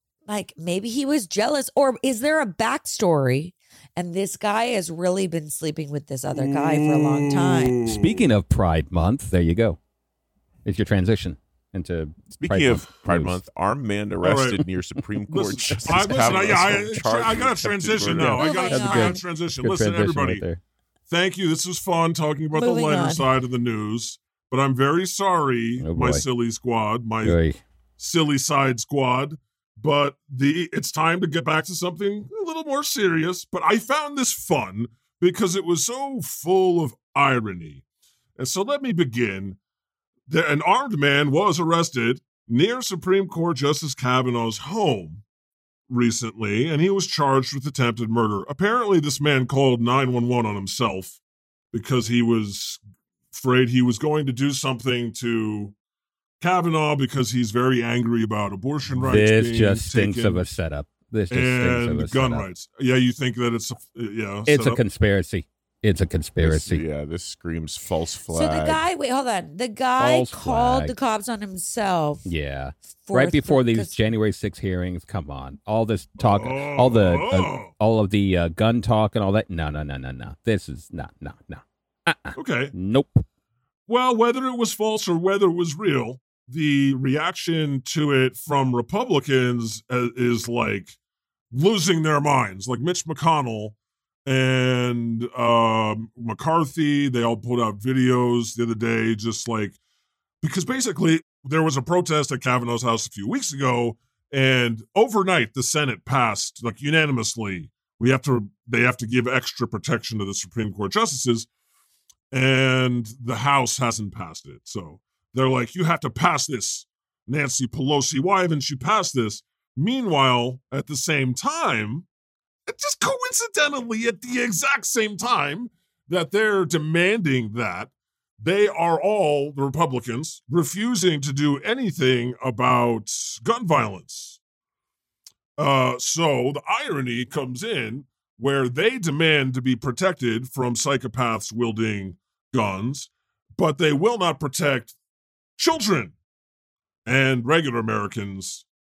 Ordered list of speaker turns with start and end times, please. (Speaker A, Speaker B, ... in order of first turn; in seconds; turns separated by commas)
Speaker A: 0.3-7.8, Speaker B: 6.3-8.2, Speaker C: 7.9-9.8, Speaker C: 10.7-13.4, Speaker D: 12.3-18.4, Speaker B: 14.2-14.6, Speaker B: 15.3-20.4, Speaker C: 15.8-16.4, Speaker C: 18.0-20.6, Speaker A: 18.3-19.2, Speaker B: 21.1-27.4, Speaker A: 22.5-23.3, Speaker C: 25.8-26.2, Speaker C: 27.2-27.6, Speaker B: 28.0-37.8, Speaker B: 38.4-39.6, Speaker B: 40.3-45.2, Speaker B: 45.9-51.2, Speaker B: 51.7-52.8, Speaker B: 53.3-55.7, Speaker B: 56.4-60.5, Speaker C: 59.0-62.5, Speaker B: 61.3-64.8, Speaker C: 64.5-66.8, Speaker D: 66.4-68.8, Speaker A: 68.3-72.3, Speaker C: 70.0-71.0, Speaker C: 72.3-83.2, Speaker A: 73.1-74.0, Speaker B: 76.2-77.7, Speaker B: 82.3-82.7, Speaker B: 83.9-91.0, Speaker B: 91.5-93.8, Speaker B: 94.3-99.8, Speaker B: 100.4-111.5, Speaker B: 112.3-122.0, Speaker B: 122.7-134.4, Speaker B: 135.6-144.9, Speaker B: 145.6-146.1, Speaker B: 147.1-148.7